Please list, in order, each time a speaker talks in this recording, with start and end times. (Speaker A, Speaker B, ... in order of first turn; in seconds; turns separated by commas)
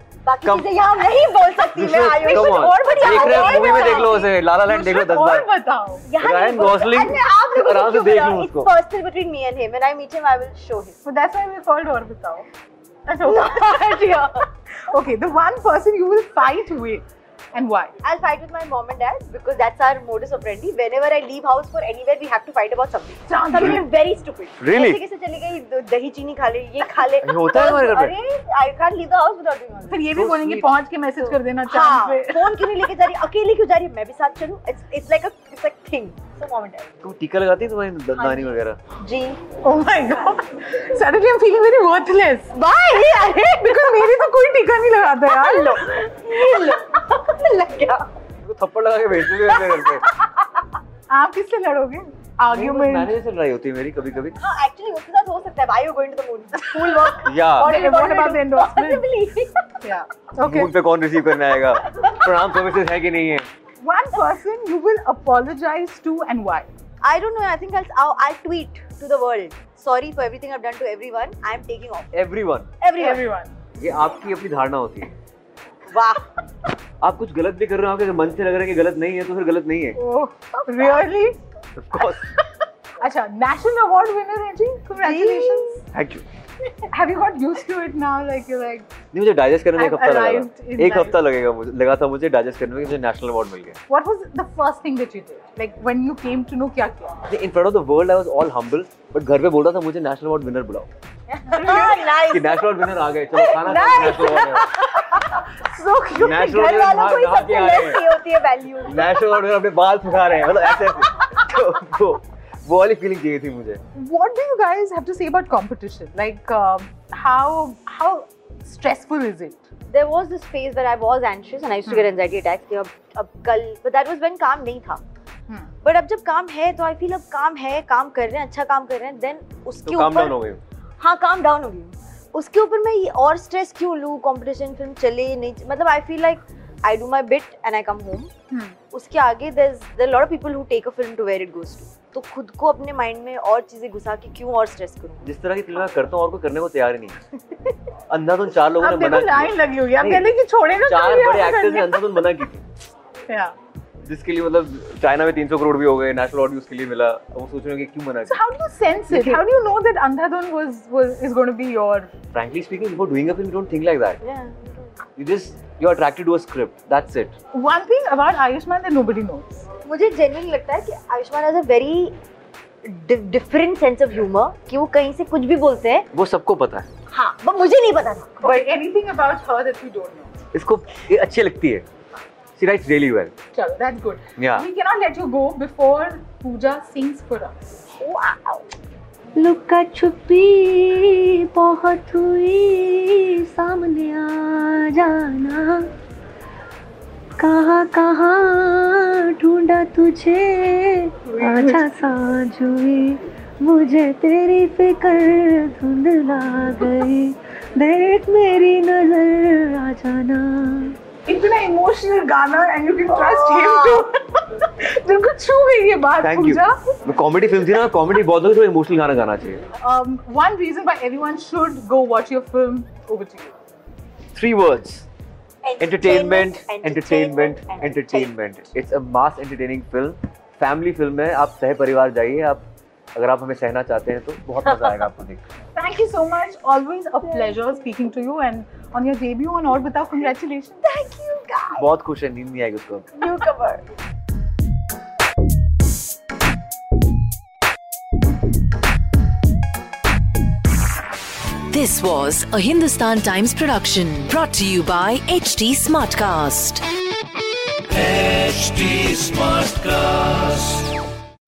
Speaker A: 0.2-4.4, Speaker B: 1.8-5.5, Speaker C: 3.2-4.0, Speaker C: 4.6-6.1, Speaker A: 6.0-11.0, Speaker B: 6.2-8.7, Speaker C: 11.1-12.5, Speaker C: 13.1-13.9, Speaker A: 13.2-14.5, Speaker C: 14.8-17.9, Speaker A: 18.0-30.1, Speaker C: 23.3-23.9, Speaker B: 24.6-25.0, Speaker B: 27.2-28.1, Speaker C: 29.9-32.7, Speaker B: 30.1-30.8, Speaker A: 31.2-36.9, Speaker B: 37.0-38.8, Speaker A: 38.2-39.5, Speaker C: 39.5-42.5, Speaker A: 42.5-44.3, Speaker C: 43.6-45.8, Speaker A: 45.3-48.0, Speaker B: 48.4-50.0, Speaker A: 49.5-50.0, Speaker C: 51.1-53.1, Speaker B: 52.5-54.4, Speaker A: 54.4-59.7, Speaker C: 56.7-59.1, Speaker B: 57.2-57.8, Speaker C: 59.8-60.7, Speaker B: 60.4-63.5, Speaker A: 62.0-62.2, Speaker C: 63.8-66.7, Speaker A: 67.0-72.1, Speaker B: 72.1-72.7, Speaker A: 72.8-73.3, Speaker C: 73.0-73.5, Speaker B: 73.8-75.1, Speaker A: 75.9-76.3, Speaker B: 77.0-80.0, Speaker C: 80.0-81.4, Speaker A: 80.8-81.0, Speaker B: 81.8-82.2, Speaker C: 83.0-85.8, Speaker A: 85.0-85.8, Speaker B: 85.9-86.2, Speaker C: 86.9-88.9, Speaker B: 89.1-93.8, Speaker C: 89.8-91.2, Speaker C: 93.9-97.2, Speaker B: 97.3-100.9, Speaker C: 101.3-102.1, Speaker A: 101.5-105.3, Speaker B: 102.3-104.7, Speaker C: 103.6-106.8, Speaker B: 106.2-108.0, Speaker A: 106.5-109.3, Speaker B: 108.8-113.8, Speaker C: 114.0-119.7, Speaker A: 119.9-125.0, Speaker A: 125.8-130.4, Speaker B: 129.8-130.6, Speaker A: 131.0-138.3, Speaker C: 138.5-138.8, Speaker A: 138.9-145.3, Speaker B: 145.2-147.2, Speaker B: 148.1-150.3, Speaker C: 148.8-152.2, Speaker B: 150.8-152.7, Speaker C: 153.3-153.5, Speaker B: 154.1-158.4, Speaker C: 158.3-162.1, Speaker B: 159.1-159.4, Speaker B: 162.3-164.2, Speaker A: 164.2-164.9, Speaker B: 165.2-167.3, Speaker C: 167.5-169.7, Speaker A: 169.8-172.2, Speaker A: 172.8-176.1, Speaker B: 176.1-176.9, Speaker A: 177.1-178.7, Speaker C: 178.4-180.3, Speaker B: 180.5-181.9, Speaker B: 182.6-183.3, Speaker C: 183.5-187.6, Speaker B: 184.4-184.7, Speaker A: 188.0-188.7, Speaker D: 189.4-195.9, Speaker D: 197.4-211.0, Speaker C: 201.3-201.8, Speaker C: 211.3-216.9, Speaker A: 213.1-214.1, Speaker B: 216.2-219.6, Speaker C: 219.8-223.5, Speaker B: 224.3-225.1, Speaker A: 225.6-228.3, Speaker B: 225.8-232.6, Speaker B: 233.2-235.4, Speaker C: 235.8-240.8, Speaker A: 237.3-237.8, Speaker A: 240.8-241.8, Speaker B: 241.8-243.1, Speaker A: 243.2-243.8, Speaker E: 251.7-256.9, Speaker E: 258.1-260.7